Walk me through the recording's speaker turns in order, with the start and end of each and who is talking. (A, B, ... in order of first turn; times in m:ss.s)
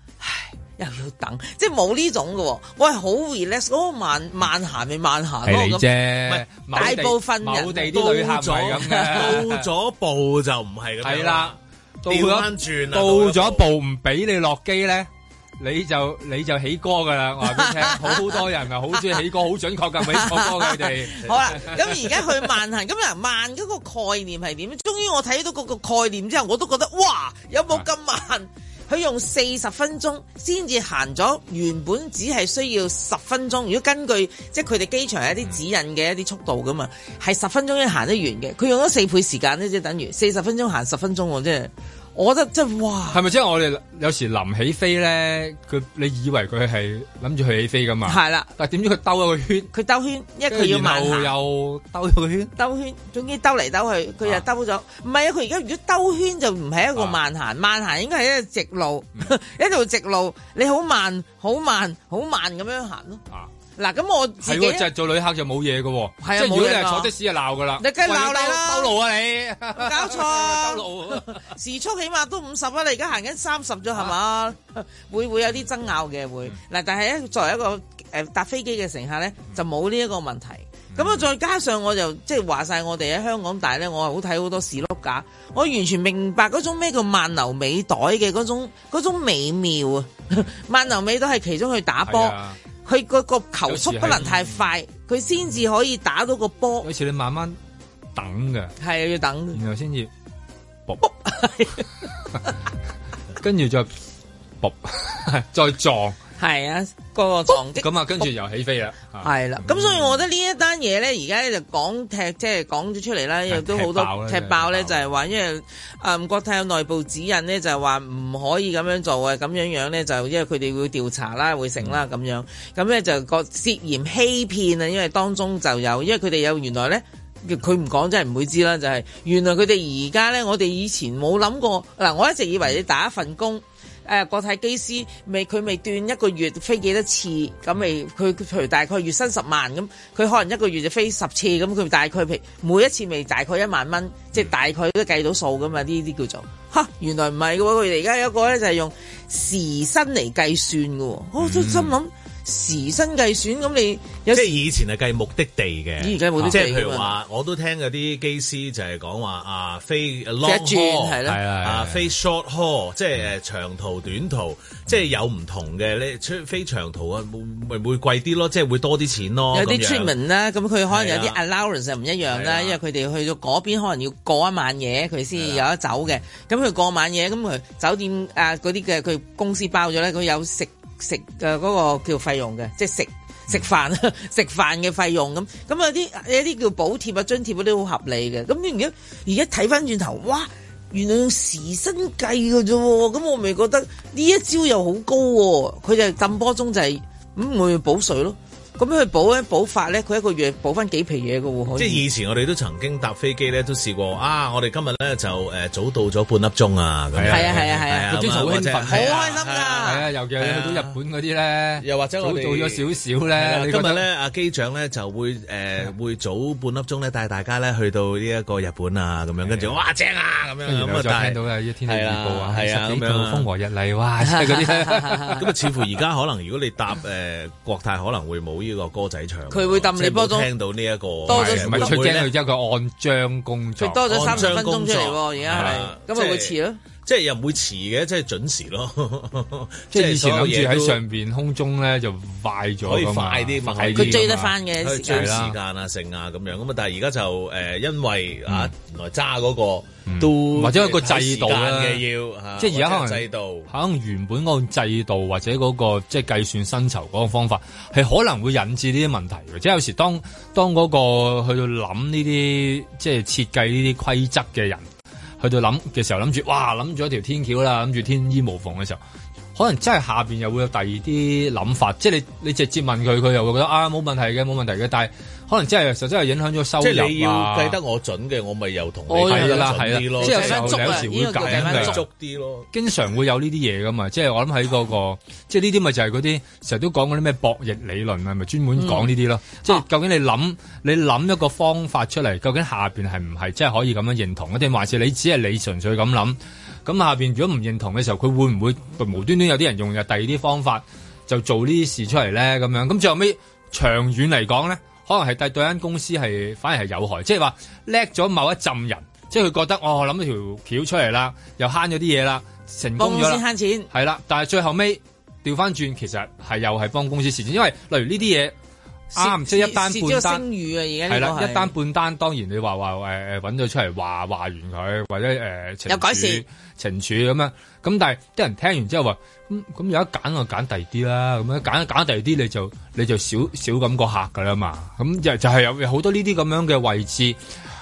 0:00.2-0:05.8 A
0:05.4-0:09.7 B
0:06.3-0:06.9 C
0:06.7-0:08.2 A
0:07.8-0:13.6 C
0:08.8-0:09.3 A
0:11.0-0:22.2 B
0:17.5-0:18.3 A
0:20.1-0:43.2 A
0:43.1-0:49.7 B
0:48.0-0:48.5 A
0:49.7-0:51.3 A
0:50.5-0:52.5 B
0:52.6-1:03.2 A
1:03.8-1:04.9 A
1:04.4-1:11.4 B
1:06.2-1:07.1 A
1:07.8-1:09.0 A
1:09.7-1:36.9 A
1:20.9-1:21.3 B
1:32.0-1:32.6 B
1:33.7-1:34.7 B
1:36.8-1:37.6 B
1:38.1-1:38.7 B
1:38.8-1:39.6 A
1:39.5-1:40.1 B
1:41.0-1:41.8 A
1:43.4-1:43.9 B
1:44.6-1:46.2 B
1:46.4-1:48.3 A
1:47.5-1:50.2 B
1:49.2-2:34.6 A
1:53.5-1:55.1 B
2:31.4-2:31.9 B
2:34.3-2:50.1 C
2:36.0-2:37.1 A
2:36.4-2:36.6 B
2:40.4-2:41.4 A
2:41.2-2:42.1 B
2:49.5-3:22.0 A
2:50.9-2:51.4 C
2:52.3-2:52.8 C
3:21.8-3:30.9 C
3:27.1-3:29.3 B
3:27.3-3:28.3 A
3:28.9-3:30.0 A
3:29.8-3:34.0 B
3:31.8-3:43.5 C
3:39.4-3:39.8 B
3:40.6-3:45.3 B
3:44.3-3:45.4 A
3:45.3-3:52.3 C
3:49.5-3:50.5 A
3:51.2-3:52.1 A
3:51.3-3:54.6 B
3:53.8-3:56.8 A
3:54.1-4:01.0 C
3:55.5-3:55.8 B
3:59.9-4:05.6 B
4:02.8-4:13.7 C
4:03.9-4:05.3 A
4:08.5-4:08.7 B
4:10.1-4:12.0 B
4:12.6-4:24.8 B
4:25.4-4:29.0 B
4:29.5-4:37.8 B
4:36.8-4:42.7 C
4:39.1-4:42.0 B
4:39.1-4:42.0 A
4:42.7-5:18.5 B
4:48.8-4:49.1 A
5:13.0-5:13.9 A
5:19.1-5:20.4 B
5:19.1-5:21.7 A
5:21.1-5:37.4 B
5:25.9-5:26.4 A